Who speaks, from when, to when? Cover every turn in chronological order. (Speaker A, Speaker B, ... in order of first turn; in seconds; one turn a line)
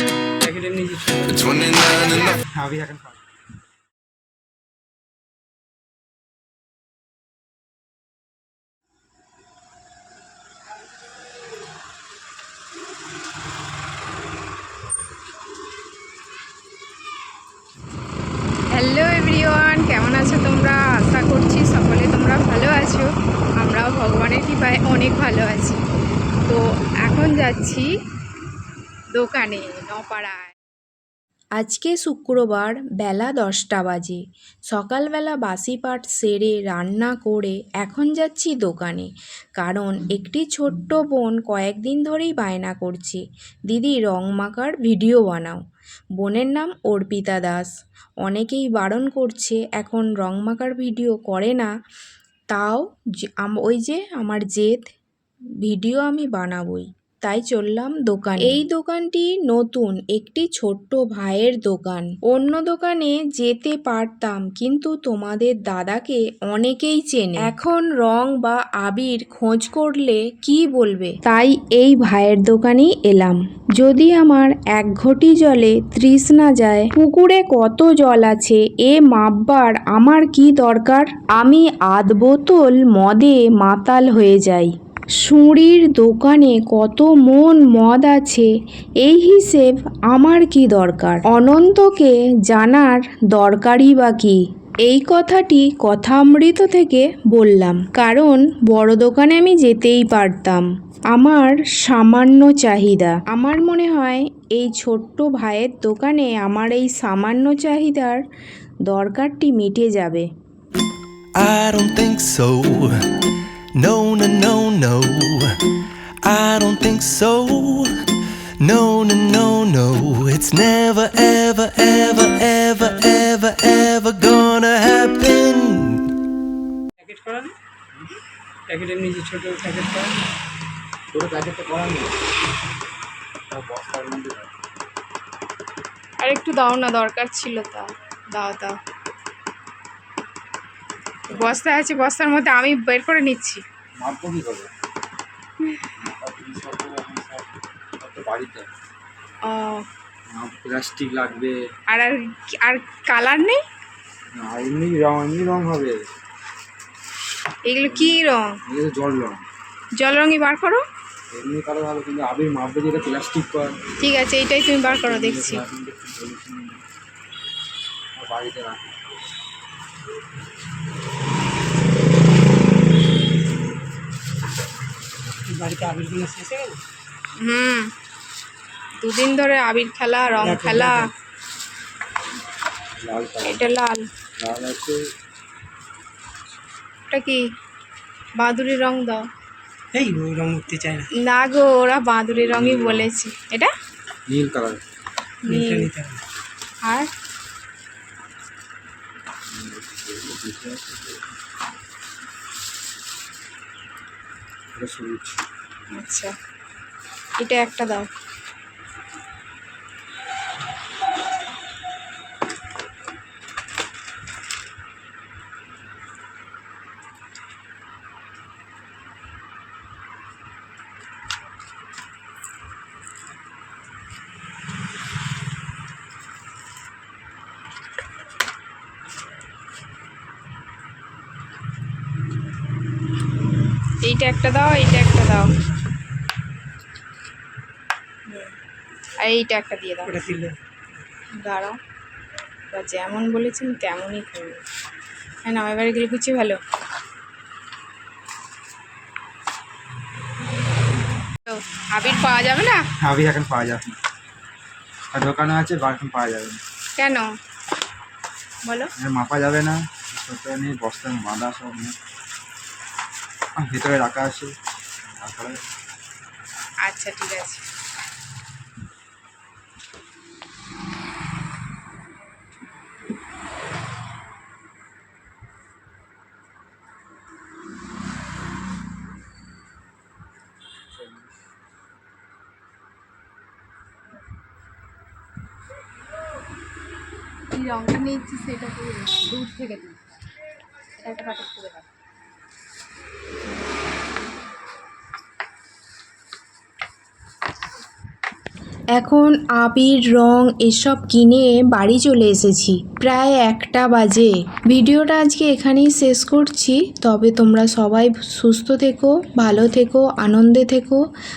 Speaker A: 0.4-2.2
Speaker B: 2.3-3.2
Speaker C: 18.7-23.1
Speaker C: 23.6-25.8
Speaker C: 26.5-27.8
Speaker C: 29.2-30.5
Speaker C: 31.6-45.6
Speaker C: 46.2-47.7
Speaker C: 48.2-51.7
Speaker C: 52.5-54.9
Speaker C: 55.6-84.7
Speaker C: 85.2-88.5
Speaker C: 89.0-108.2
Speaker C: 108.9-110.3
Speaker D: 111.3-113.0
Speaker D: 113.8-115.5
Speaker D: 116.2-117.9
Speaker D: 118.6-126.0
Speaker A: 127.0-127.5
Speaker A: 128.7-130.1
Speaker B: 131.1-132.1
Speaker B: 133.5-134.5
Speaker C: 136.2-138.7
Speaker C: 141.3-143.6
Speaker B: 144.0-144.7
Speaker B: 146.0-148.7
Speaker C: 149.5-149.8
Speaker B: 150.3-151.5
Speaker C: 151.9-153.6
Speaker B: 154.3-156.1
Speaker C: 157.7-158.5
Speaker B: 157.8-159.4
Speaker C: 160.0-160.8
Speaker B: 161.3-163.8
Speaker C: 164.0-165.6
Speaker B: 164.8-166.8
Speaker B: 168.1-169.1
Speaker A: 175.5-176.8
Speaker C: 177.4-177.9
Speaker C: 179.0-180.9
Speaker A: 180.4-181.1
Speaker B: 183.0-183.7
Speaker C: 183.5-184.0
Speaker B: 184.4-185.0
Speaker C: 187.1-187.4
Speaker C: 188.4-189.2
Speaker A: 189.9-191.1
Speaker C: 191.2-193.7
Speaker B: 192.3-193.1
Speaker B: 194.3-194.8
Speaker A: 195.5-196.2
Speaker C: 195.5-195.9
Speaker B: 199.5-201.2
Speaker B: 204.7-205.4
Speaker C: 206.0-206.3
Speaker C: 207.4-208.1
Speaker C: 234.0-235.4
Speaker C: 239.2-240.1
Speaker A: 240.0-240.6
Speaker C: 241.4-241.8
Speaker C: 242.7-244.6
Speaker C: 245.4-246.6
Speaker C: 251.5-252.8
Speaker B: 253.0-254.0
Speaker B: 255.1-256.6
Speaker C: 257.0-257.3
Speaker B: 259.0-262.0
Speaker B: 263.6-264.6
Speaker B: 265.1-265.6
Speaker C: 266.8-267.6
Speaker C: 287.6-289.9
Speaker C: 291.0-291.8
Speaker C: 298.9-311.0